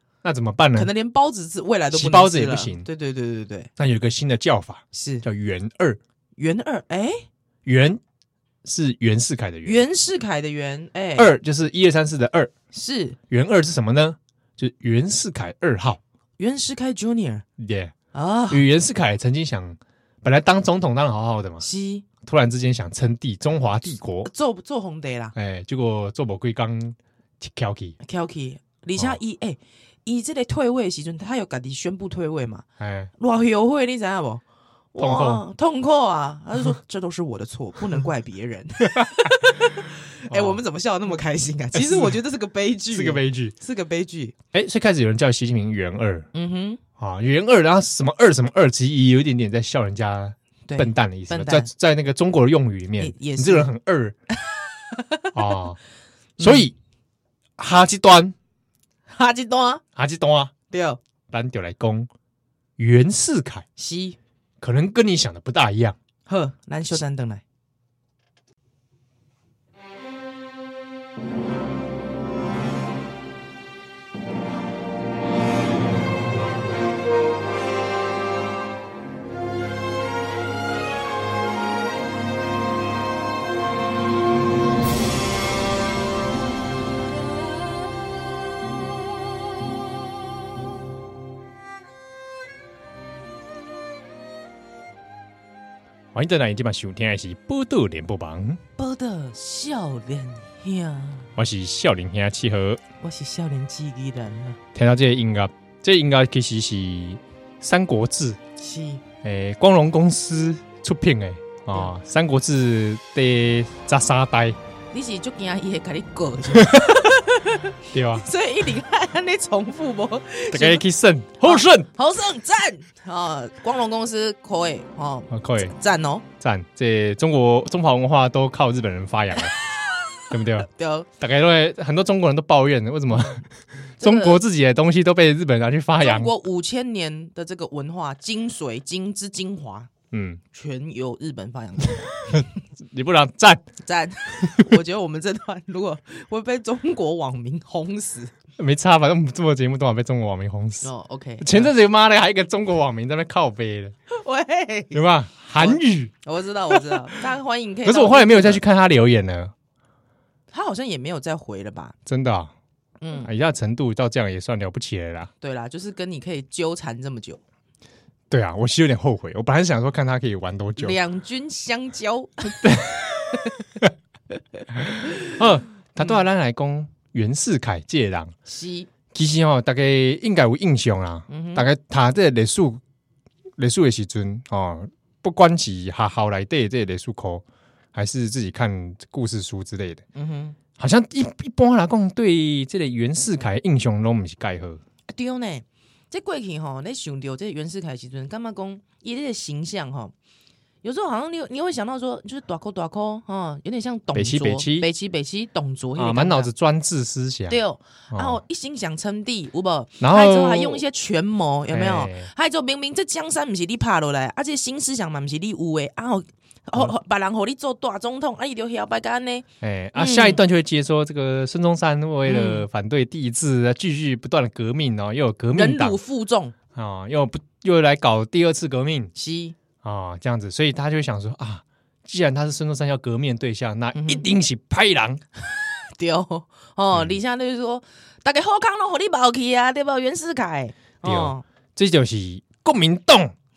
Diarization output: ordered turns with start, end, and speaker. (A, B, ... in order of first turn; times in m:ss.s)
0:00.2-0:00.9 A
0:00.8-0:03.7 B
0:01.9-0:02.9 A
0:03.8-0:06.0 A
0:04.9-0:05.2 B
0:06.4-0:07.3 B
0:07.6-0:08.0 A
0:08.6-0:09.8 A
0:09.6-0:11.3 B
0:11.2-0:12.5 A
0:12.7-0:13.2 B
0:13.3-0:16.0 A
0:16.4-0:17.4 B
0:17.6-0:17.9 A
0:18.1-0:18.6 B
0:18.5-0:21.6 A
0:21.6-0:22.1 B
0:22.2-0:24.3 A
0:24.2-0:25.4 B
0:25.4-0:28.0 A
0:28.0-0:32.6 B
0:32.8-0:33.1 A
0:33.2-0:34.4 B
0:34.9-0:44.4 B
0:35.0-0:35.4 A
0:38.8-0:39.5 A
0:40.3-0:40.6 A
0:41.7-0:42.2 A
0:42.9-0:43.5 A
0:44.5-0:46.3 A
0:46.3-0:46.8 B
0:47.0-0:54.2 A
0:50.7-0:51.7 B
0:53.0-0:53.7 B
0:54.9-0:55.3 B
0:55.3-0:55.8 A
0:56.4-0:56.7 B
0:56.4-0:56.7 A
0:57.6-0:58.4 A
0:59.1-0:59.8 B
1:00.0-1:00.5 A
1:00.7-1:01.0 B
1:01.3-1:02.1 A
1:02.8-1:03.6 A
1:03.8-1:04.2 B
1:04.6-1:06.0 A
1:06.3-1:07.4 B
1:36.1-1:38.6 A
1:38.8-1:41.3 B
1:41.4-1:42.8 A
1:43.0-1:44.6 B
1:44.7-1:48.4 A
1:48.6-1:49.0 B
1:49.2-1:54.6 A
1:54.9-2:00.8 B
1:56.5-1:57.1 A
1:57.9-1:58.3 A
2:00.5-2:01.9 A
2:01.4-2:06.3 B
2:05.3-2:05.7 A
2:06.4-2:09.5 A
2:09.9-2:11.1 B
2:10.3-2:16.3 A
2:14.0-2:14.4 B
2:16.0-2:19.9 B
2:20.1-2:20.4 A
2:20.5-2:22.4 B
2:22.3-2:23.7 A
2:23.8-2:28.3 B
2:28.6-2:30.9 A
2:30.8-2:31.7 B
2:31.4-2:34.0 A
2:34.1-2:35.0 B
2:34.9-2:36.1 A
2:35.6-2:38.6 B
2:36.7-2:37.1 A
2:37.8-2:39.5 A
2:40.5-2:42.0 B
2:42.1-2:42.5 A
2:43.0-2:43.3 B
2:43.2-2:45.3 A
2:45.4-2:47.4 B
2:48.3-2:51.0 A
2:50.8-2:52.7 B
2:52.6-2:53.9 A
2:53.3-2:53.6 B
2:54.8-2:58.4 A
2:58.5-2:58.9 B
2:59.1-3:02.8 A
3:01.3-3:01.7 B
3:03.6-3:10.0 A
3:10.2-3:10.6 B
3:10.8-3:14.8 A
3:15.1-3:20.1 B
3:20.8-3:26.5 B
3:24.1-3:24.9 A
3:26.0-3:27.6 A
3:27.5-3:40.4 B
3:28.1-3:28.4 A
3:30.0-3:30.8 A
3:31.7-3:32.3 A
3:39.6-3:46.0 A
3:42.3-3:42.7 B
3:45.6-3:46.6 B
3:46.7-3:49.1 A
3:49.2-3:49.6 B
3:49.8-3:55.2 A
3:54.0-3:54.3 B
3:56.0-4:01.4 B
4:01.0-4:03.4 A